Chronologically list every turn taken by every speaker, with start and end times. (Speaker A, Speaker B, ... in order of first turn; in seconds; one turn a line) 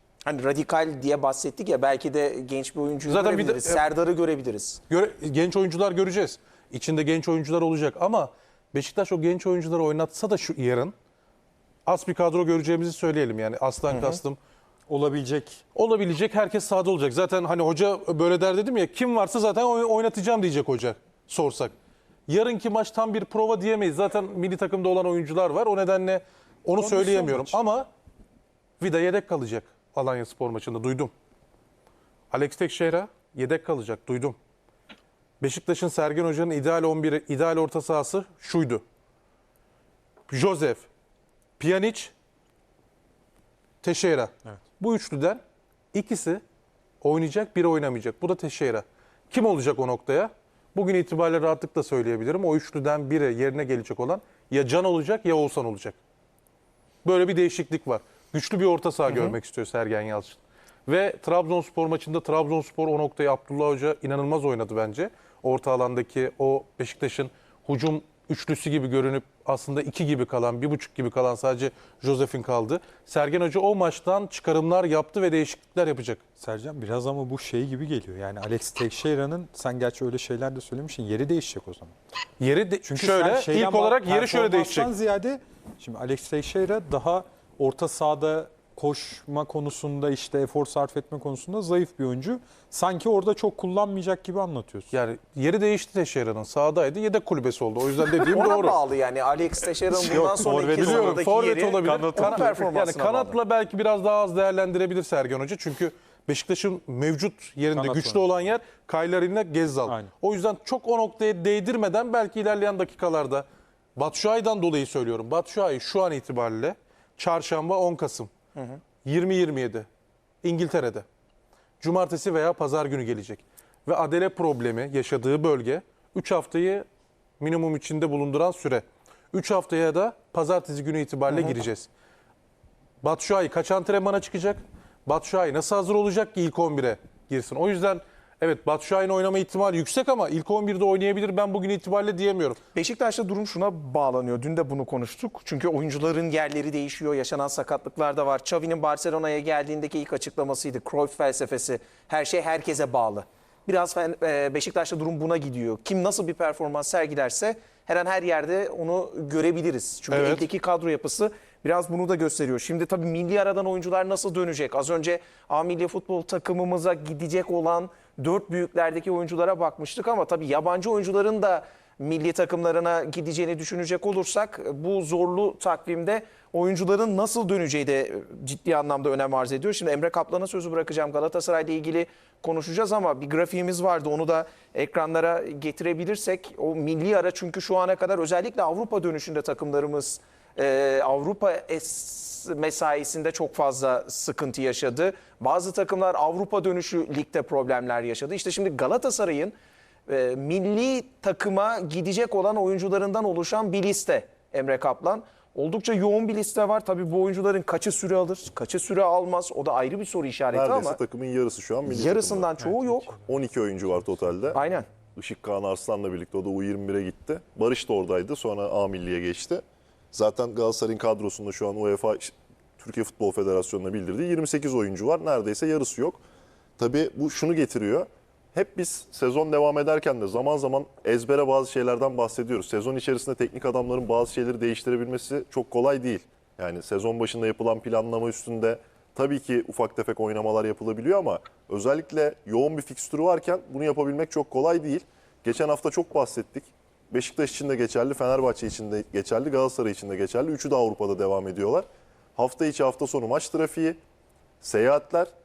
Speaker A: 0.2-4.8
Speaker B: 3.1-3.8
Speaker B: 4.9-10.9
Speaker B: 11.9-14.4
Speaker A: 13.9-14.2
Speaker C: 14.9-15.6
Speaker B: 15.8-21.7
Speaker B: 22.3-27.9
Speaker C: 26.8-27.6
Speaker B: 28.8-31.1
Speaker B: 32.3-34.4
Speaker B: 35.4-38.8
Speaker B: 40.3-40.9
Speaker B: 41.6-42.1
Speaker B: 43.8-45.4
Speaker B: 45.9-46.4
Speaker B: 47.0-56.0
Speaker B: 57.0-76.2
Speaker A: 59.1-59.4
Speaker C: 76.4-82.0
Speaker B: 82.4-84.9
Speaker C: 82.8-94.9
Speaker B: 94.9-98.8
Speaker A: 98.3-103.4
Speaker C: 100.1-101.3
Speaker B: 100.7-113.5
Speaker C: 101.9-102.4
Speaker C: 107.7-108.3
Speaker B: 114.0-118.3
Speaker A: 118.6-118.8
Speaker B: 119.0-119.9
Speaker B: 120.4-121.0
Speaker B: 121.8-126.8
Speaker B: 127.4-131.9
Speaker A: 131.3-131.6
Speaker B: 133.0-142.6
Speaker A: 142.7-199.5
Speaker B: 160.1-160.5
Speaker A: 200.1-211.0
Speaker D: 210.5-212.5
Speaker A: 211.9-213.2
Speaker D: 213.2-214.6
Speaker A: 214.5-214.9
Speaker D: 215.2-226.2
Speaker D: 226.8-254.0
Speaker D: 254.6-255.3